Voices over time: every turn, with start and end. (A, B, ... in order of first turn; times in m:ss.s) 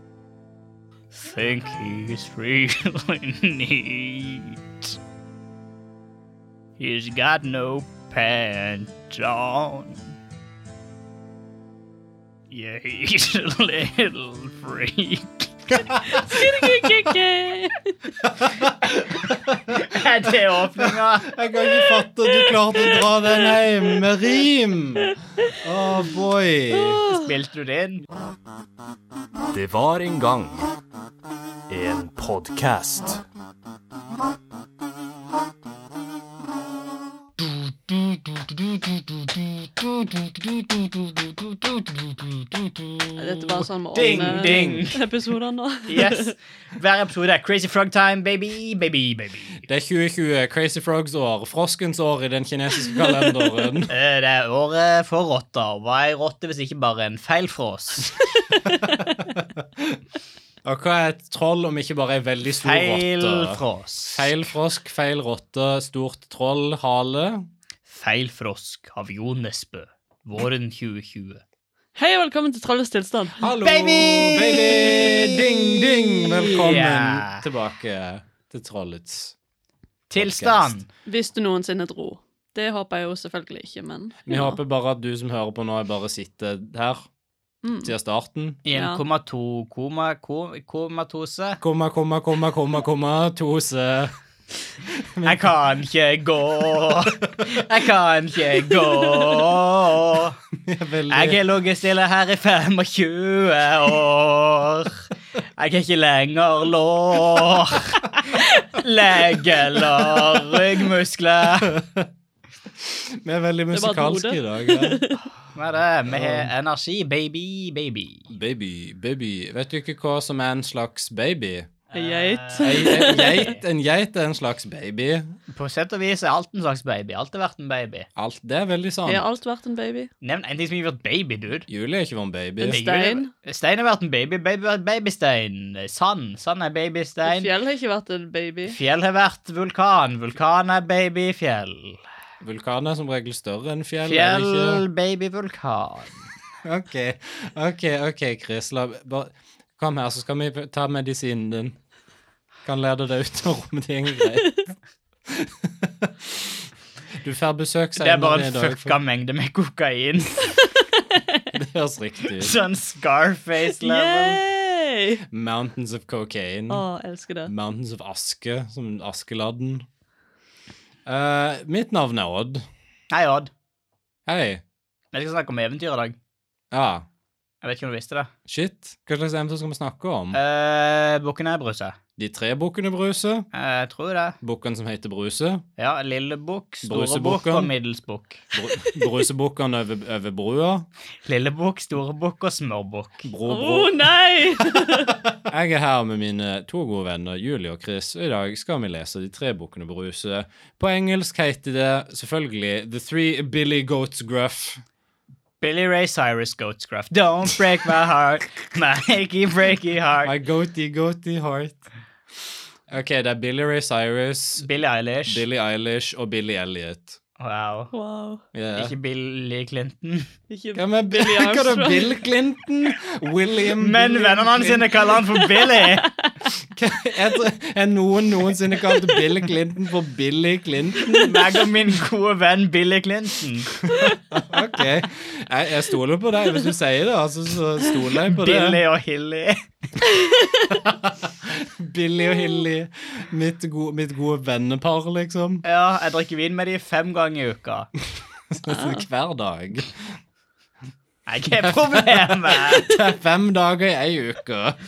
0:01.1-0:04.9 A
0:06.8-0:10.0 A
0:12.5-0:15.9 A
0:16.1-0:17.9 B
0:18.2-0:19.8 C
0:19.7-0:21.3 A
0:21.3-0:27.0 C
0:22.4-0:23.6 B
0:26.7-0:27.2 B
0:27.1-0:28.0 A
0:29.5-0:30.7 D
0:31.7-0:33.2 D
0:37.9-0:44.8 C
0:43.2-0:46.3 B
0:43.9-0:45.0 A
0:45.9-0:49.6 A
0:49.7-0:53.9 C
0:53.9-0:58.1 A
0:58.9-1:00.0 C
1:00.6-1:03.6 C
1:02.6-1:04.3 A
1:04.1-1:07.5 C
1:07.9-1:11.4 A
1:12.0-1:13.4 B
1:13.4-1:19.3 C
1:13.6-1:17.4 A
1:20.1-1:20.9 A
1:20.1-1:20.8 C
1:21.0-1:24.6 B
1:24.2-1:27.0 C
1:27.6-1:27.9 B
1:27.8-1:28.6 C
1:28.6-1:31.6 A
1:28.7-1:29.0 B
1:31.6-1:34.1 C
1:34.9-1:35.5 C
1:35.2-1:40.4 A
1:40.6-1:41.4 C
1:41.1-1:45.0 A
1:45.6-1:51.7 A
1:51.7-1:52.1 C
1:52.8-1:55.0 C
1:53.7-1:55.2 B
1:55.5-1:58.3 A
1:56.1-1:56.5 C
1:58.3-2:01.7 C
2:01.9-2:03.6 A
2:01.9-2:03.5 B
2:02.6-2:05.4 C
2:05.5-2:08.1 A
2:08.2-2:09.3 C
2:09.1-2:10.1 B
2:10.2-2:11.7 A
2:11.7-2:12.8 C
2:12.6-2:17.5 A
2:12.6-2:13.3 B
2:17.2-2:18.8 B
2:18.7-2:22.0 A
2:22.4-2:24.8 C
2:24.0-2:26.1 A
2:26.6-2:31.8 C
2:32.6-2:34.6 C
2:35.3-2:36.6 C
2:37.2-2:39.0 C
2:38.0-2:40.6 A
2:41.5-2:42.6 C
2:42.4-2:44.4 A
2:43.8-2:45.2 B
2:45.3-2:46.8 C
2:46.7-2:47.5 B
2:47.4-2:49.8 C
2:51.1-2:52.7 C
2:53.1-2:53.5 A
2:54.2-2:54.6 C
2:55.1-2:56.2 A
2:56.7-2:57.1 C
2:57.6-2:58.3 A
2:58.5-3:00.4 C
3:00.3-3:02.0 A
3:02.2-3:03.5 C
3:03.5-3:04.4 A
3:04.4-3:05.6 C
3:05.8-3:08.4 A
3:06.8-3:07.7 C
3:08.5-3:10.9 C
3:11.2-3:13.3 A
3:13.2-3:14.1 C
3:13.4-3:15.2 B
3:15.4-3:24.8 C
3:25.6-3:30.3 A
3:30.2-3:31.8 C
3:32.9-3:34.7 C
3:34.6-3:35.4 A
3:35.3-3:37.2 C
3:37.4-3:37.9 A
3:37.9-3:38.4 B
3:38.5-3:38.9 C
3:38.8-3:40.3 A
3:40.5-3:42.2 B
3:40.8-3:45.0 C
3:43.8-3:46.1 A
3:45.6-3:46.3 B
3:46.7-3:51.4 C
3:51.2-3:53.7 A
3:53.9-3:58.8 C
3:58.3-3:59.6 A
4:00.7-4:05.6 C
4:05.6-4:07.9 A
4:08.5-4:10.0 C
4:08.7-4:09.0 B
4:11.3-4:12.9 A
4:11.6-4:14.8 C